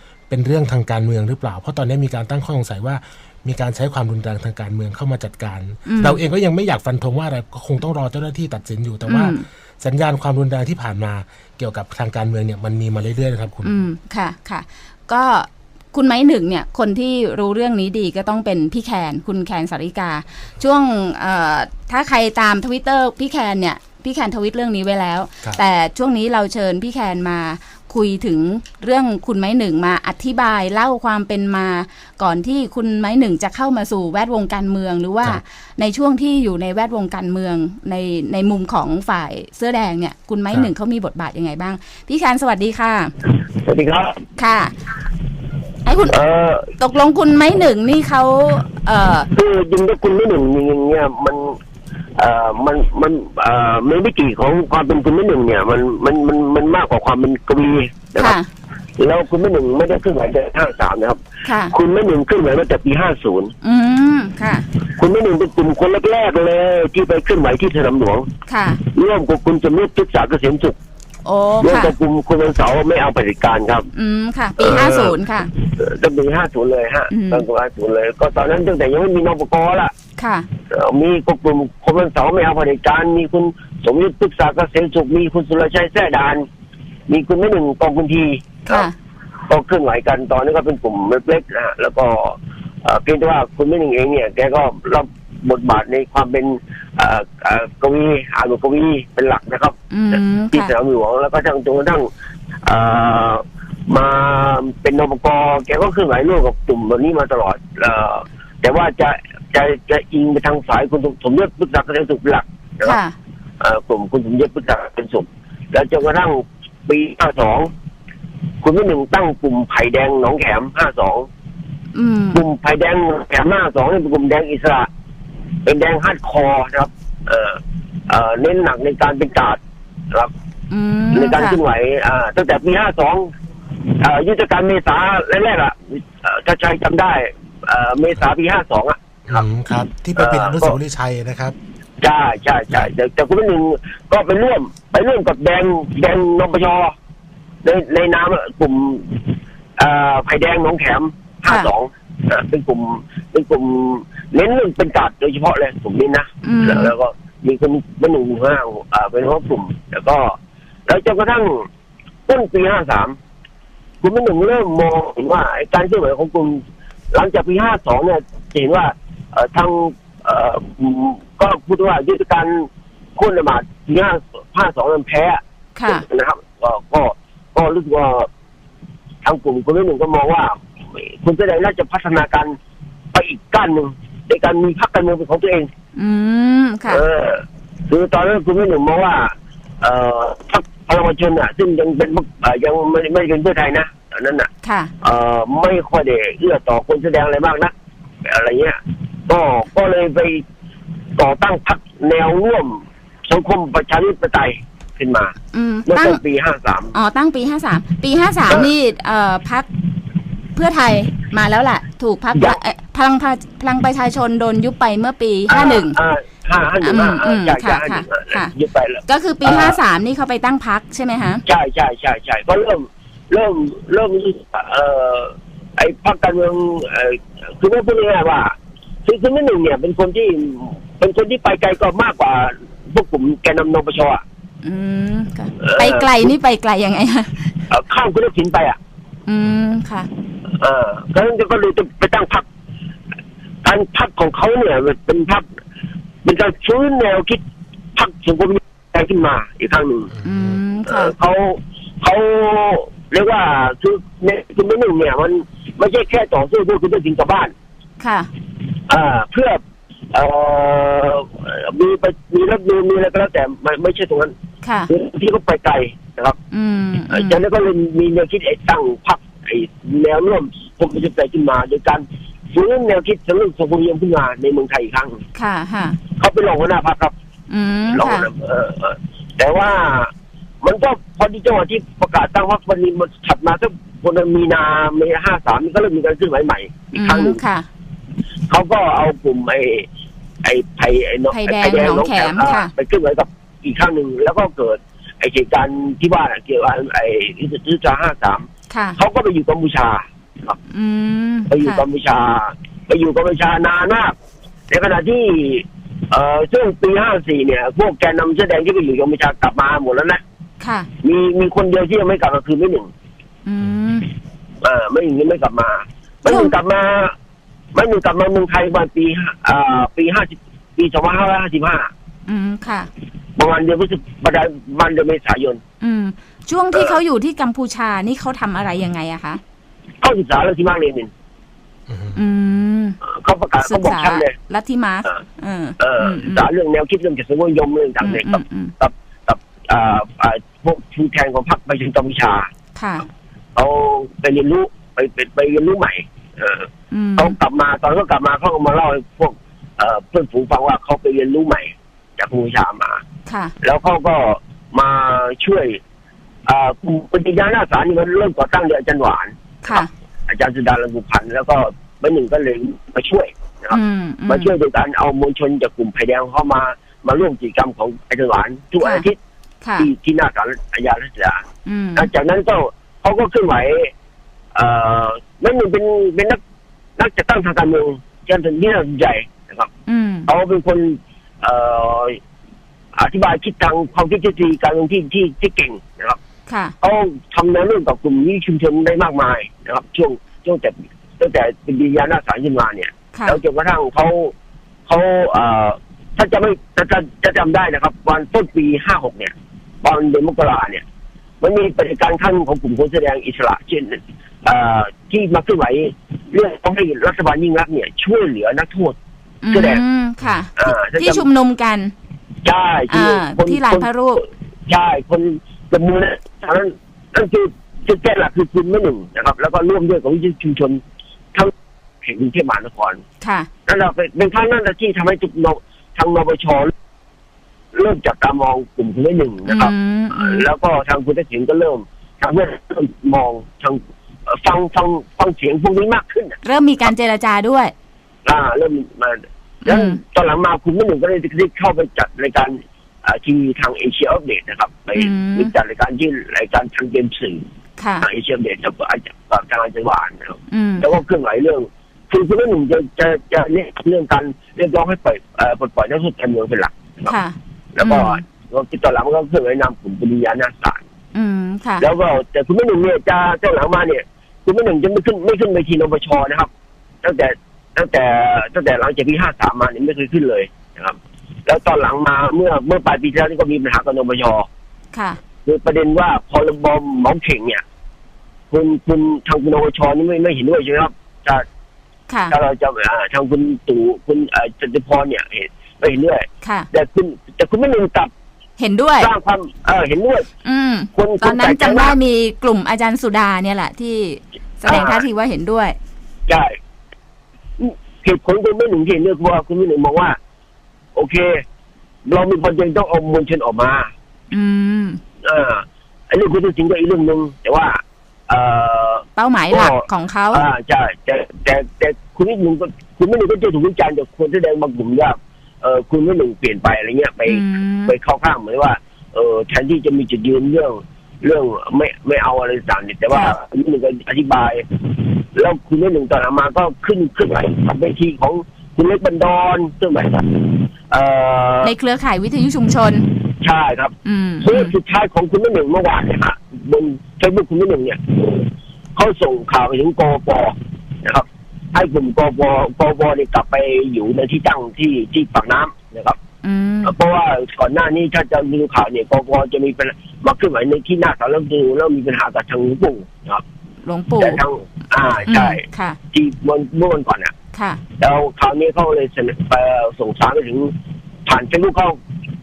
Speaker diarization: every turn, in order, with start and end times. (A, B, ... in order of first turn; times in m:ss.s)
0:00.3-0:13.8 A
0:05.8-0:06.2 B
0:09.0-0:09.4 B
0:13.6-0:43.1 B
0:43.6-0:44.2 C
0:44.4-0:44.7 B
0:45.8-0:46.2 B
0:46.1-0:46.7 C
0:46.8-0:49.3 B
0:49.3-0:51.6 C
0:52.2-0:58.4 C
0:58.2-0:58.5 B
0:59.0-1:01.2 C
1:01.4-1:01.7 B
1:01.7-1:03.5 C
1:03.6-1:04.6 B
1:04.9-1:08.3 C
1:08.5-1:08.8 B
1:08.8-1:10.8 C
1:11.2-1:11.9 B
1:11.6-1:13.9 C
1:13.9-1:15.5 B
1:14.6-1:19.9 C
1:17.1-1:17.4 B
1:20.2-1:20.5 B
1:20.7-1:26.5 C
1:27.1-1:28.9 C
1:28.7-1:28.9 B
1:29.5-1:42.1 C
1:39.9-1:40.7 B
1:42.6-1:53.0 C
1:52.8-1:53.1 B
1:53.6-1:57.7 C
1:58.6-2:01.3 C
2:01.9-2:02.4 B
2:02.3-2:04.9 C
2:05.6-2:09.6 C
2:10.7-2:11.6 B
2:11.1-2:13.3 C
2:14.0-2:19.4 C
2:19.3-2:21.5 A
2:20.2-2:20.8 C
2:22.0-2:26.9 C
2:27.6-2:29.2 C
2:29.8-2:41.7 C
2:36.4-2:36.9 B
2:42.3-2:43.2 C
2:44.0-2:58.3 C
2:55.8-2:56.0 B
2:59.2-3:02.6 C
3:03.1-3:05.7 C
3:06.0-3:07.0 B
3:06.9-3:14.5 C
3:14.6-3:14.9 B
3:15.0-3:17.7 C
3:18.2-3:20.4 C
3:21.2-3:25.3 C
3:25.5-3:26.2 B
3:25.9-3:26.9 C
3:26.9-3:29.7 B
3:30.5-3:36.0 B
3:35.5-3:39.8 C
3:36.8-3:38.5 B
3:39.1-3:41.4 B
3:41.4-3:54.2 C
3:54.6-3:57.5 B
3:55.6-3:56.3 C
3:57.7-3:58.8 C
3:59.3-4:00.1 B
4:00.6-4:02.4 C
4:03.6-4:05.5 C
4:06.2-4:07.4 C
4:08.0-4:10.1 C
4:10.1-4:10.6 A
4:10.2-4:11.1 B
4:10.9-4:17.5 C
4:18.0-4:18.3 B
4:18.9-4:19.6 C
4:20.1-4:24.3 C
4:24.6-4:24.9 B
4:24.9-4:26.4 C
4:26.5-4:27.4 B
4:27.1-4:35.2 C
4:35.3-4:36.0 B
4:36.2-4:37.1 C
4:37.5-4:38.3 B
4:37.9-4:40.1 C
4:40.6-4:47.4 C
4:46.9-4:47.7 B
4:48.5-4:49.9 C
4:50.4-5:00.6 C
4:51.3-4:52.7 B
4:58.7-4:59.0 B
5:00.7-5:01.8 B
5:01.5-5:04.1 C
5:04.7-5:10.2 C
5:10.6-5:10.9 B
5:11.0-5:12.9 C
5:13.4-5:14.1 B
5:14.6-5:17.1 C
5:16.2-5:16.5 B
5:17.7-5:21.9 C
5:22.3-5:22.9 B
5:23.4-5:25.6 C
5:25.8-5:29.4 B
5:30.0-5:31.1 C
5:31.9-5:32.2 A
5:32.1-5:33.0 B
5:33.0-5:34.3 C
5:33.6-5:36.4 B
5:35.8-5:42.5 C
5:38.0-5:38.7 B
5:42.8-5:43.0 B
5:43.6-5:53.0 C
5:46.9-5:47.4 B
5:53.2-5:53.5 B
5:53.6-5:55.8 C
5:56.4-6:03.8 C
5:59.6-5:59.9 B
6:03.7-6:04.5 B
6:04.3-6:09.2 C
6:08.8-6:09.0 B
6:09.6-6:09.9 B
6:09.8-6:11.4 C
6:11.6-6:12.1 B
6:12.0-6:13.9 C
6:14.5-6:16.4 C
6:17.0-6:19.7 C
6:19.9-6:20.3 B
6:20.3-6:22.2 C
6:22.9-6:26.2 C
6:26.5-6:26.7 B
6:26.8-6:34.3 C
6:33.1-6:33.4 B
6:34.9-6:40.8 C
6:41.4-6:49.0 C
6:49.4-6:51.9 B
6:49.5-6:49.8 C
6:50.2-6:50.5 A
6:50.6-6:51.3 C
6:52.4-6:53.9 C
6:52.9-6:54.2 B
6:54.7-7:00.8 C
7:02.0-7:03.0 C
7:03.2-7:03.5 B
7:03.7-7:06.7 C
7:07.7-7:16.4 C
7:09.5-7:10.4 B
7:16.4-7:17.7 B
7:18.2-7:27.4 C
7:19.6-7:20.0 B
7:25.0-7:25.5 B
7:27.8-7:28.1 B
7:28.0-7:37.1 C
7:30.5-7:30.9 B
7:37.1-7:38.2 B
7:37.7-7:40.8 C
7:41.1-7:41.8 B
7:41.8-7:46.5 C
7:47.0-7:54.5 C
7:54.9-7:55.2 B
7:55.4-7:57.6 C
7:58.5-8:01.4 C
8:02.1-8:02.3 B
8:02.3-8:08.1 C
8:06.4-8:06.7 B
8:08.6-8:09.1 B
8:09.0-8:10.3 C
8:10.4-8:15.8 B
8:10.9-8:11.9 C
8:14.6-8:15.0 C
8:16.3-8:16.6 C
8:17.6-8:20.2 C
8:21.0-8:21.4 C
8:22.0-8:23.9 C
8:24.3-8:25.0 B
8:25.2-8:44.6 C
8:29.2-8:30.4 B
8:37.3-8:37.9 B
8:45.3-8:51.7 C
8:51.6-8:53.0 B
8:53.4-9:06.2 C
8:54.0-8:54.7 B
9:06.4-9:06.9 B
9:06.8-9:13.4 C
9:13.8-9:14.4 B
9:14.2-9:17.3 C
9:15.3-9:16.0 B
9:17.5-9:17.8 B
9:18.0-9:20.7 C
9:21.2-9:22.0 C